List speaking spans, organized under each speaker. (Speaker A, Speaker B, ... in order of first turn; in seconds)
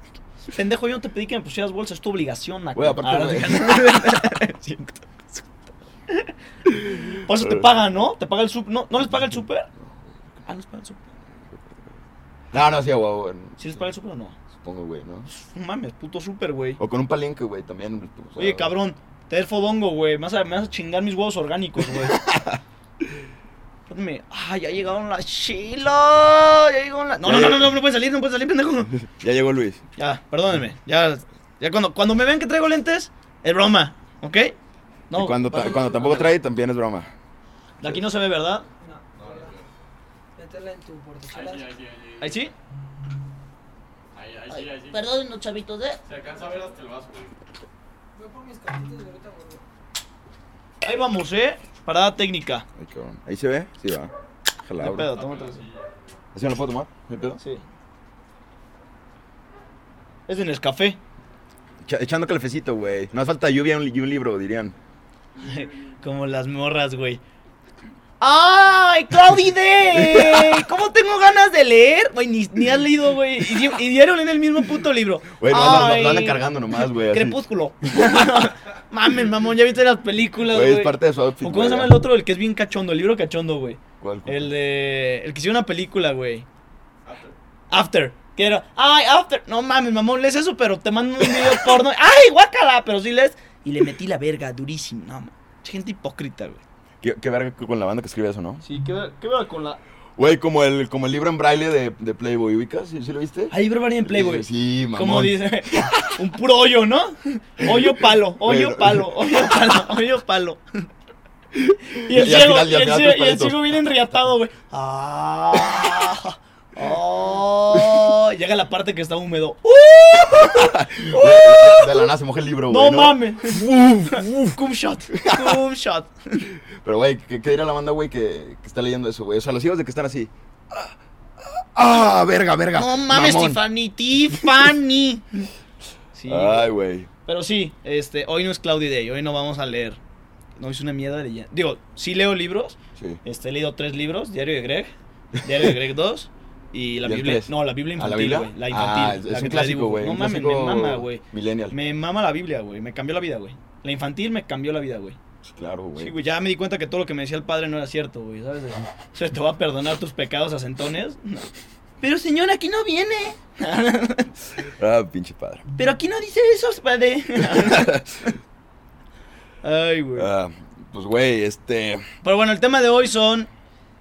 Speaker A: 0.5-5.6, 6.1-9.7, 10.5-11.1, 13.6-14.4, 15.3-16.8, 18.4-22.2, 23.9-28.9, 30.0-34.5, 35.1-36.4, 37.8-38.7, 42.2-42.5, 44.5-46.0, 50.8-52.7, 54.8-55.6, 60.3-61.0, 65.4-67.2, 68.2-76.4, 77.0-86.5, 87.7-96.6, 98.6-99.8, 103.5-110.6, 112.0-122.1, 122.7-126.5, 132.8-135.5, 136.2-136.7, 137.3-140.0, 140.6-155.2, 156.0-161.5, 162.0-164.3, 165.8-168.3, 169.6-170.3, 172.2-173.5
Speaker B: 2.8-3.8, 6.9-7.7, 9.8-10.2, 11.5-11.9, 12.5-13.8, 14.5-15.3, 16.8-18.7, 22.0-22.6, 27.2-27.7, 28.9-29.8, 35.1-37.1, 52.8-54.1, 54.7-55.1, 56.4-57.4, 61.8-64.8, 70.0-70.6, 75.4-77.4, 80.4-82.0, 84.0-84.5, 97.0-98.6, 100.2-103.5, 104.1-106.1, 107.6-109.6, 111.7-113.7, 117.7-118.0, 120.3-124.6, 125.2-125.6, 126.8-133.6, 134.3-134.7, 136.3-137.1, 143.0-143.2, 147.0-151.8, 155.4-156.1, 164.8-165.7, 167.4-168.2, 170.2-172.1
Speaker C: 38.8-39.5, 40.4-41.7, 48.1-49.6
Speaker D: 39.2-39.7, 41.3-42.5, 44.1-45.0, 46.1-47.4, 55.1-55.6, 87.1-87.3